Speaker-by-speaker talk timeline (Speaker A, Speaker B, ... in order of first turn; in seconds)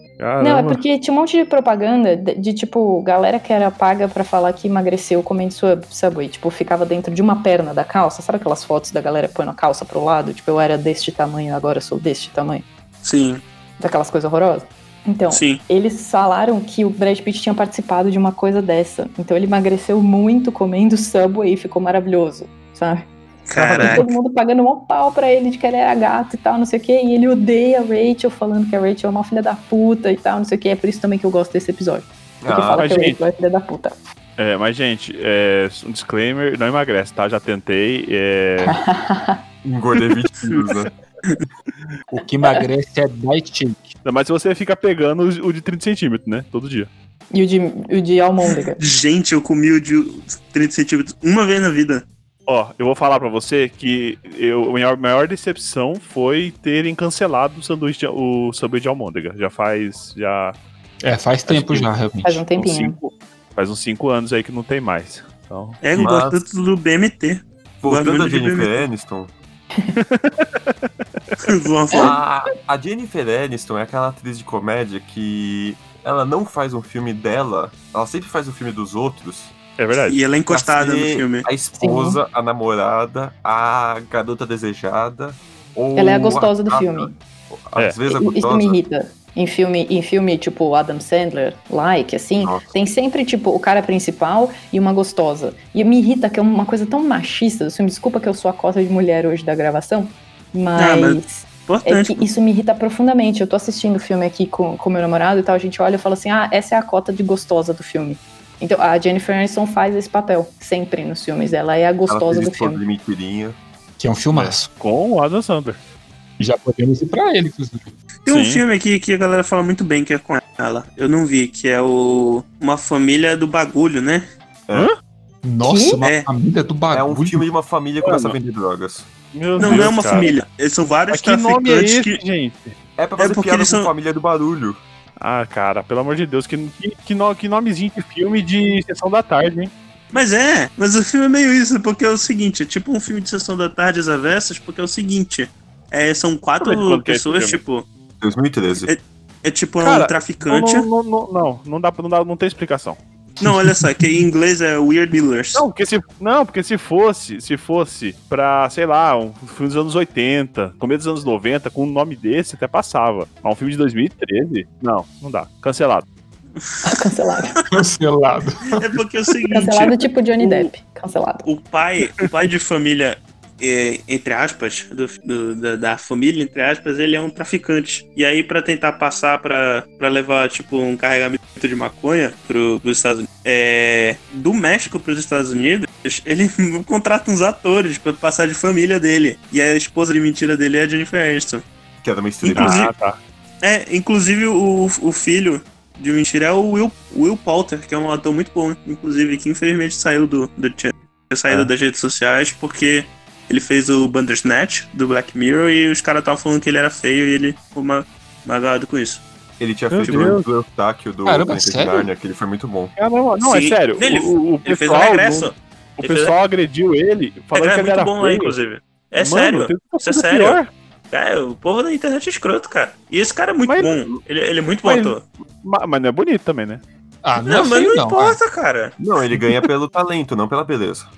Speaker A: 0.2-0.8, 23.6-24.0, 32.7-33.2, 34.4-38.8, 44.0-46.9, 52.5-60.6, 61.5-61.9, 62.5-66.3, 70.0-71.4, 79.8-80.2, 114.3-115.8, 118.2-118.6, 124.7-125.0, 128.0-128.4, 129.3-130.3, 131.1-132.7, 135.2-139.7, 146.6-147.6, 149.8-153.0, 155.5-166.1, 192.5-193.2, 209.9-210.4, 213.0-218.6, 219.2-220.7, 223.7-224.2, 224.8-226.8
Speaker B: 0.4-12.6, 13.8-23.1, 23.8-34.0, 38.6-39.4, 47.3-48.8, 62.2-63.0, 81.8-82.2, 86.0-87.1, 88.1-112.8, 125.6-126.0, 166.8-167.6, 169.5-171.5
Speaker C: 13.0-13.4, 15.3-15.6, 23.5-24.1, 48.8-52.0, 65.8-68.8, 71.4-72.1, 80.1-81.5, 100.8-102.2, 118.2-124.2, 126.0-126.3, 129.6-132.2, 133.2-133.9, 140.1-147.8, 148.9-150.9, 153.4-155.6, 168.8-169.9, 171.4-191.6, 192.4-192.9, 193.6-209.2, 213.4-216.3, 217.5-220.6, 221.1-225.2, 227.4-228.9
Speaker D: 32.4-32.9, 39.6-40.9, 65.9-66.4, 67.8-69.3, 71.9-79.5, 80.5-88.8, 92.4-92.7, 112.1-113.6, 126.9-129.1, 133.0-134.8, 148.2-148.9, 192.0-192.9, 209.6-212.9, 229.0-231.1
Speaker E: 42.1-43.9, 61.0-62.4, 114.0-114.7, 116.4-117.9, 125.4-127.5, 153.4-154.1, 167.7-169.0, 211.2-212.1, 227.2-228.4